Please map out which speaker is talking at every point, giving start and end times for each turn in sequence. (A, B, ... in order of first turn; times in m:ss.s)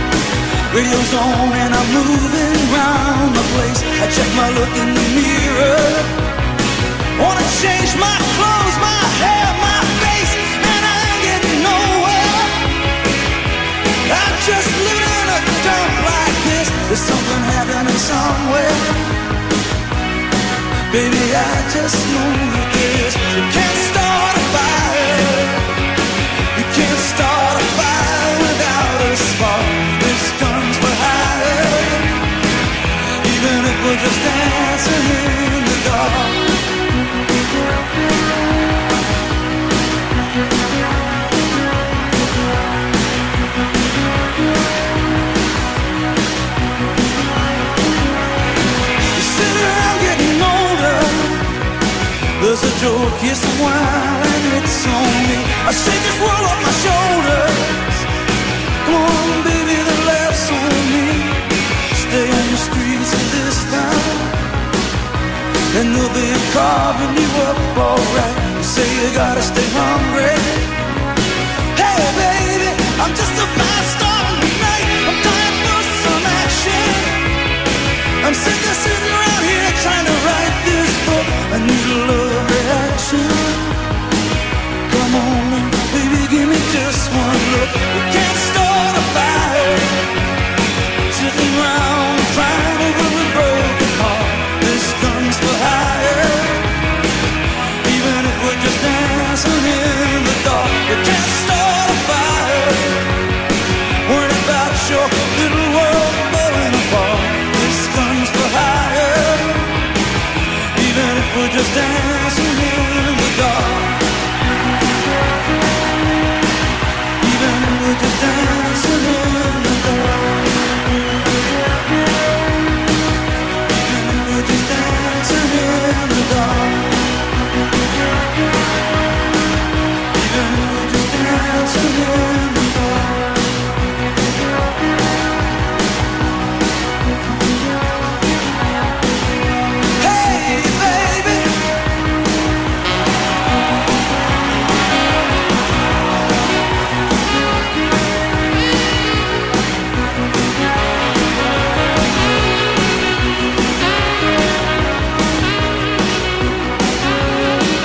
0:00.7-0:06.1 A
0:07.2-0:12.7 A
0:14.1-0:19.1 A
0:20.9-0:25.6 A
0:26.5-0:32.1 A
0:33.2-0:36.5 A
0:49.1-0:51.5 A
0:52.4-0:58.1 A
0:58.8-1:04.4 A
1:05.7-1:10.7 A
1:11.7-1:17.2 A
1:18.2-1:23.7 A
1:24.9-1:30.0 A
1:31.1-1:36.6 A
1:37.8-1:43.0 A
1:44.0-1:49.8 A
1:50.7-1:54.0 A
1:57.2-2:00.5 A
2:03.7-2:07.0 A
2:10.1-2:13.3 A
2:20.0-2:21.6 A